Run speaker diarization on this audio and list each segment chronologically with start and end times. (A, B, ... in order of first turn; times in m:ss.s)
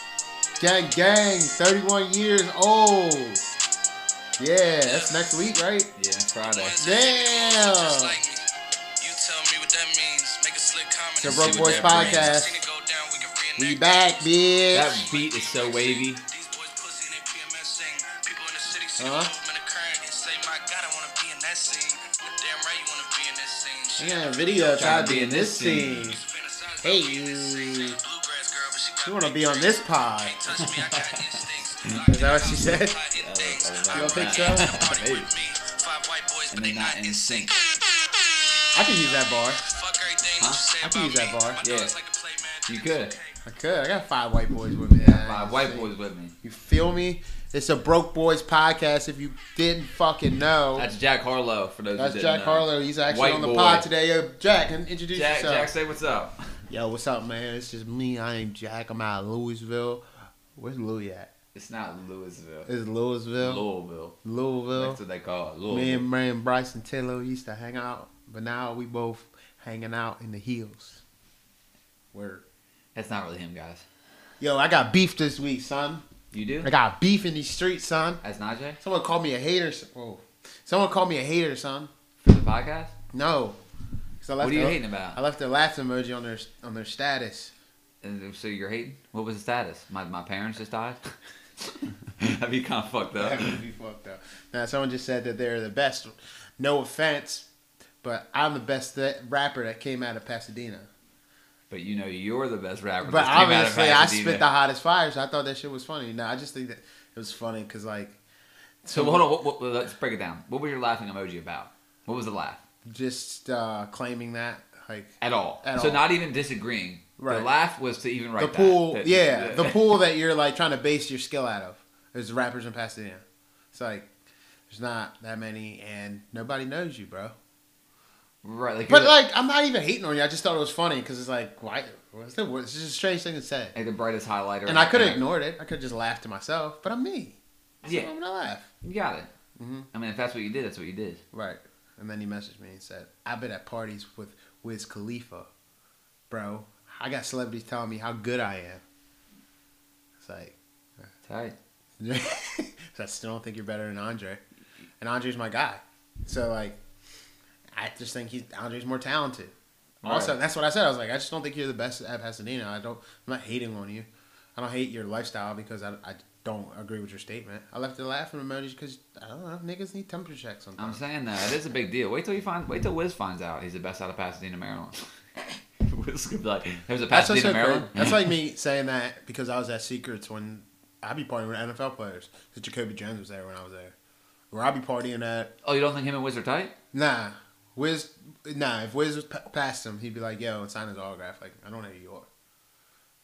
0:00.6-0:03.4 A
0:04.4-0:05.9 A
0:04.8-0:05.3 B
0:06.0-0:06.8 C
0:06.5-0:08.4 B
0:06.8-0:08.1 A
0:09.0-0:25.0 B
0:11.2-0:12.5 A
0:11.2-0:12.4 C
0:13.6-0:15.0 A
0:14.7-0:16.2 C
0:19.0-0:19.3 A
0:24.0-0:26.2 A
0:24.8-0:26.0 C
0:25.8-0:37.8 B
0:26.8-0:28.0 A
0:29.0-0:30.4 A
0:30.6-0:31.4 C
0:32.1-0:32.9 A
0:33.1-0:35.3 C
0:33.9-0:34.7 A
0:36.5-0:37.5 C
0:38.7-0:39.6 A
0:39.0-0:43.4 B
0:40.8-0:41.6 A
0:41.6-0:41.9 C
0:42.7-0:43.1 C
0:43.4-0:45.9 A
0:45.0-0:46.3 C
0:46.4-0:50.9 A
0:50.8-0:53.8 C
0:52.0-0:55.7 A
0:55.1-0:56.3 C
0:56.7-1:00.0 A
1:00.6-1:01.3 A
1:01.5-1:02.7 C
1:02.7-1:03.6 A
1:03.4-1:04.2 C
1:04.2-1:05.0 A
1:04.7-1:06.1 C
1:05.7-1:11.0 A
1:12.1-1:12.4 A
1:12.9-1:13.8 C
1:14.4-1:16.0 A
1:16.3-1:16.7 C
1:16.6-1:18.2 A
1:18.2-1:18.8 C
1:18.8-1:21.9 A
1:22.2-1:22.9 C
1:23.1-1:23.6 A
1:24.2-1:27.5 A
1:24.4-1:25.2 C
1:28.0-1:31.0 C
1:31.6-1:33.6 C
1:33.1-1:37.5 A
1:38.0-1:40.9 A
1:41.7-1:44.4 C
1:43.0-1:48.2 A
1:48.8-1:49.2 A
1:48.9-1:52.6 C
1:52.8-1:56.0 A
1:55.2-2:00.0 C
1:57.2-1:57.5 A
1:58.4-2:04.1 A
2:04.7-2:07.3 A
2:08.4-2:09.1 C
2:08.9-2:13.7 A
2:13.7-2:15.2 C
2:14.6-2:18.7 A
2:17.8-2:18.1 C
2:18.8-2:19.3 C
2:19.6-2:19.9 A
2:19.9-2:21.2 C
2:21.3-2:25.5 A
2:26.3-2:28.8 A
2:30.2-2:30.6 A
2:31.2-2:31.6 C
2:32.0-2:34.4 A
2:35.0-2:36.8 A
2:37.7-2:51.0 A
2:40.0-2:40.4 C
2:50.8-2:55.0 C
2:55.8-2:58.3 C
2:57.1-3:03.9 A
3:04.5-3:05.5 A
3:05.6-3:06.7 C
3:06.9-3:12.3 A